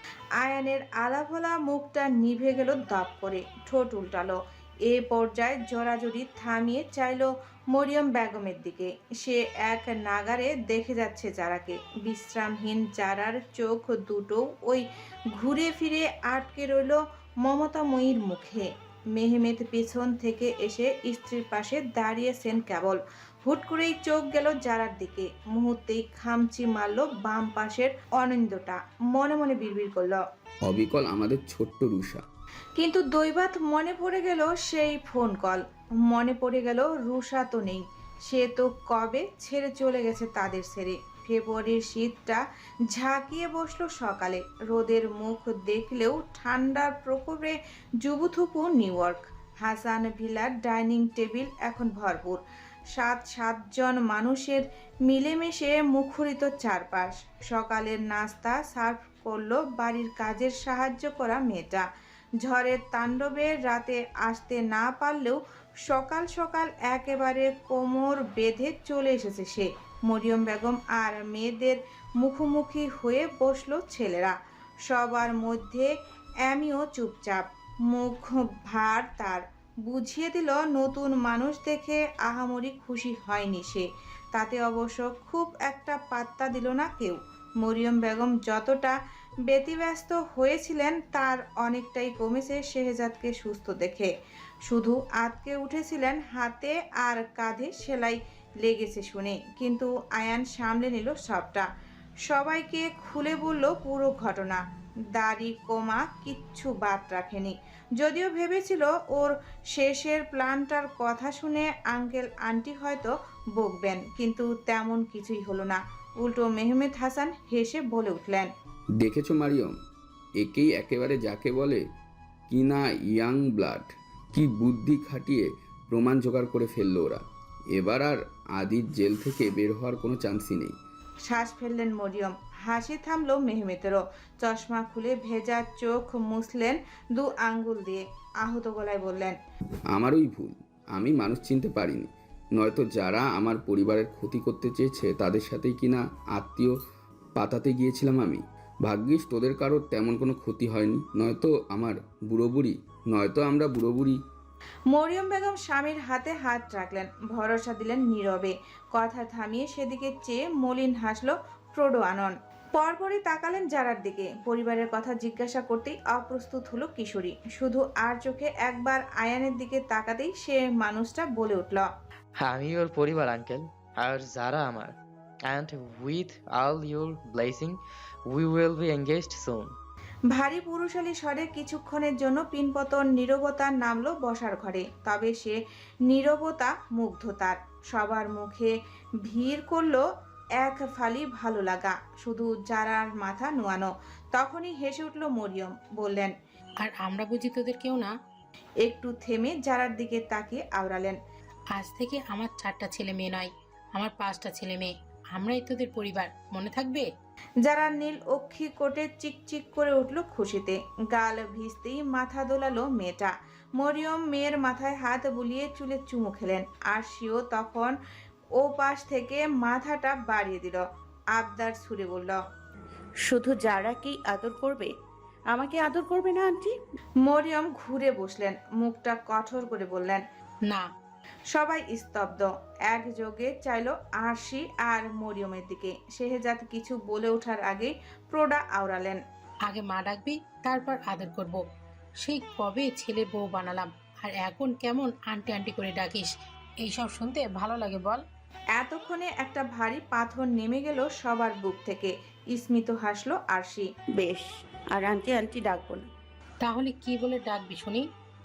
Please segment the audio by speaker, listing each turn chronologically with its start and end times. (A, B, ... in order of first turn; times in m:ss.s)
0:00.4-0:30.2 A
0:30.6-0:32.2 B
0:32.8-0:42.4 A
0:42.9-0:52.4 A
0:52.9-1:01.8 A
1:02.4-1:15.9 A
1:16.4-1:34.1 A
1:34.6-1:41.7 A
1:42.3-1:44.6 A
1:45.1-1:58.5 A
1:59.0-1:59.7 B
2:00.4-2:01.8 B
2:02.5-2:10.7 B
2:11.2-2:19.4 A
2:19.9-2:26.8 B
2:27.4-2:34.2 B
2:34.9-2:51.9 A
2:52.4-2:54.9 C
2:55.5-2:57.8 C
2:58.3-2:59.7 C
3:00.3-3:08.7 A
3:09.2-3:10.0 A
3:10.6-3:16.3 A
3:16.8-3:18.1 D
3:18.8-3:21.2 A
3:21.7-3:27.1 D
3:27.6-3:37.9 A
3:38.6-3:40.8 A
3:41.3-3:42.4 A
3:43.2-3:44.9 E
3:45.5-3:46.7 E
3:47.2-3:50.2 A
3:51.5-3:59.2 A
3:59.6-4:01.6 D
4:02.2-4:06.3 D
4:06.8-4:08.2 D
4:08.7-4:13.9 A
4:14.2-4:16.0 E
4:16.6-4:18.0 D